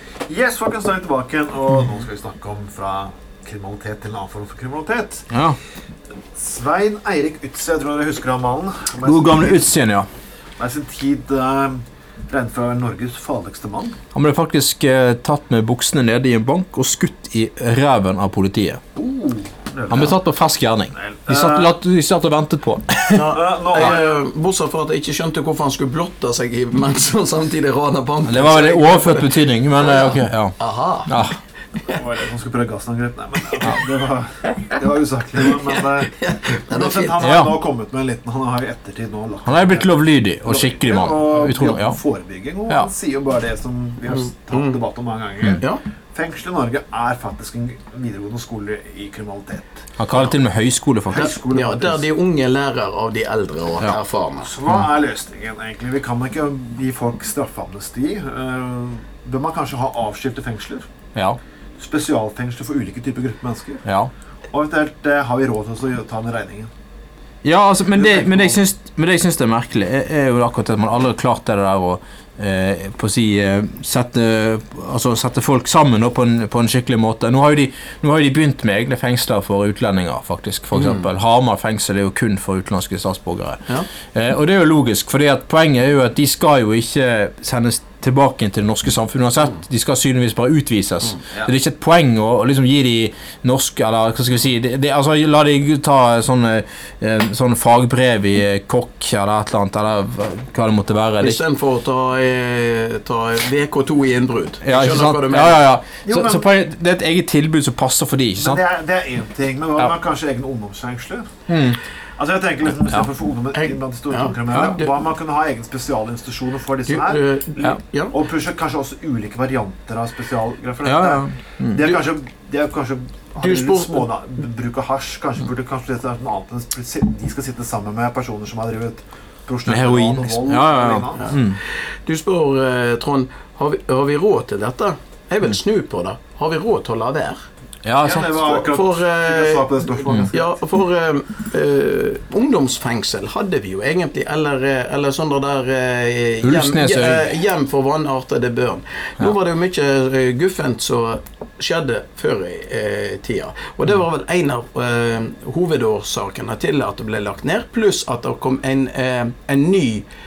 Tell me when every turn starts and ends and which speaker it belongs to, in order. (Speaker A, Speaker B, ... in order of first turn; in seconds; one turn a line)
Speaker A: 0.3-5.3
Speaker B: 5.3-5.6
Speaker A: 6.3-9.7
Speaker B: 9.0-10.1
Speaker A: 10.6-13.9
Speaker B: 14.1-18.8
Speaker A: 18.9-20.2
Speaker B: 19.9-23.3
Speaker A: 20.9-21.7
Speaker C: 23.1-31.1
Speaker A: 23.3-24.1
Speaker B: 28.2-31.4
Speaker A: 31.9-36.1
Speaker C: 35.6-37.2
Speaker A: 36.7-49.8
Speaker B: 37.2-37.6
Speaker B: 39.5-42.0
Speaker C: 44.1-44.8
Speaker B: 50.0-51.3
Speaker A: 51.1-52.1
Speaker C: 51.1-54.5
Speaker A: 54.4-60.8
Speaker B: 61.1-61.4
Speaker A: 61.8-63.8
Speaker B: 63.8-64.1
Speaker A: 64.5-66.7
Speaker B: 67.4-101.4
Speaker A: 67.9-68.6
Speaker C: 80.7-81.1
Speaker C: 101.2-105.7
Speaker B: 104.6-108.6
Speaker A: 106.0-106.5
Speaker A: 108.4-111.2
Speaker B: 111.5-111.8
Speaker A: 112.2-131.3
Speaker C: 113.6-114.9
Speaker B: 114.5-114.8
Speaker C: 116.9-118.1
Speaker B: 120.8-121.9
Speaker C: 123.4-124.0
Speaker B: 129.7-131.6
Speaker C: 132.1-137.4
Speaker B: 137.8-138.3
Speaker A: 138.0-140.6
Speaker C: 138.3-160.1
Speaker B: 146.4-147.3